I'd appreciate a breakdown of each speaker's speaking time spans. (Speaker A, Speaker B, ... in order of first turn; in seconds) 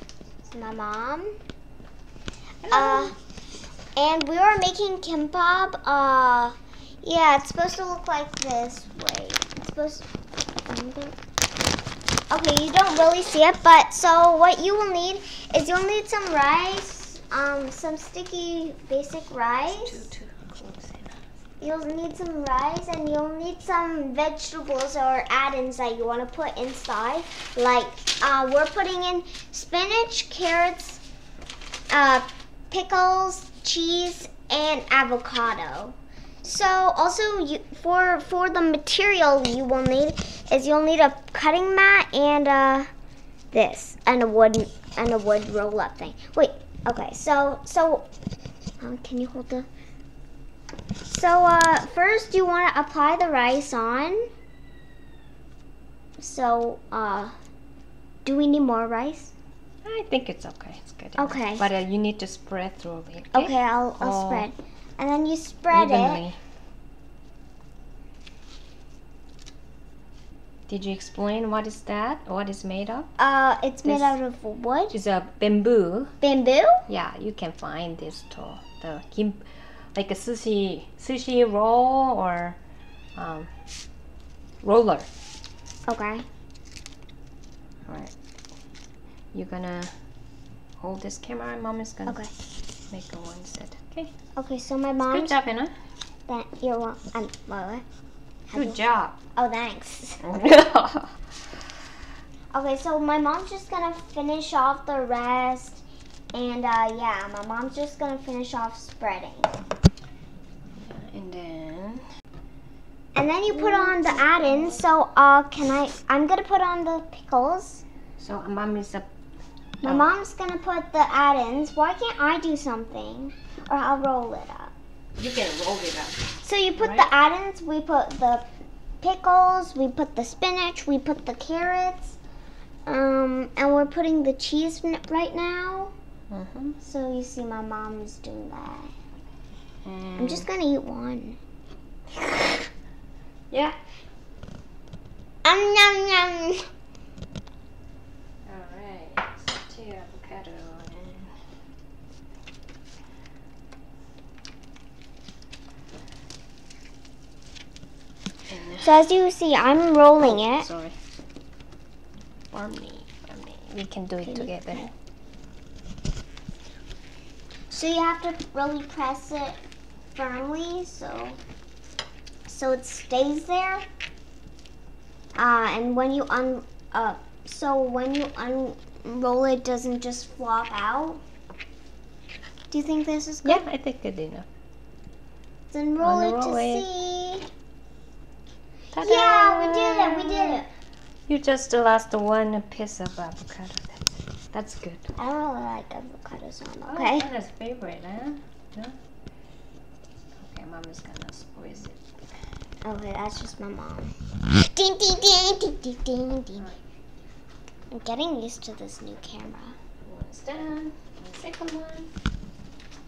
Speaker A: 0.4-1.3, 2.7-3.1, 4.0-10.1, 10.7-11.2, 12.3-20.1, 21.6-31.0, 31.9-42.9, 43.5-48.1, 48.8-49.7, 51.1-54.3, 56.2-57.3, 58.2-59.3, 61.2-61.7, 63.3-66.2, 73.2-75.0, 76.2-76.8, 85.9-86.2, 94.4-95.4, 96.3-97.8, 98.5-98.8, 99.4-100.2, 102.5-105.8, 106.3-109.5, 113.2-117.8, 119.8-124.7, 126.4-128.4, 129.0-132.2, 132.9-135.9, 136.8-138.9, 140.2-141.4, 145.4-146.7, 158.8-160.7, 164.3-164.5, 167.7-169.6, 170.1-171.4, 172.5-173.8, 175.4-181.2, 182.7-183.6, 185.7-187.5, 189.0-190.7, 195.2-197.3, 202.8-206.7, 207.9-209.8
Speaker B: 2.6-3.1, 19.7-21.1, 59.9-64.5, 65.7-66.4, 70.7-73.1, 73.8-74.2, 74.9-76.1, 76.9-79.4, 80.0-82.6, 83.2-83.5, 84.6-85.1, 87.9-88.1, 89.3-89.9, 90.8-92.2, 92.9-94.1, 95.0-95.7, 98.5-99.2, 100.2-101.1, 110.8-112.0, 113.5-114.8, 118.2-119.1, 125.2-126.2, 126.8-127.1, 136.3-136.8, 139.8-140.5, 143.5-143.8, 148.5-151.3, 158.5-158.9, 160.2-161.0, 162.5-164.9, 183.4-184.5, 186.0-186.9, 188.9-190.6, 191.3-195.1, 196.9-199.0, 200.4-202.0, 210.0-212.1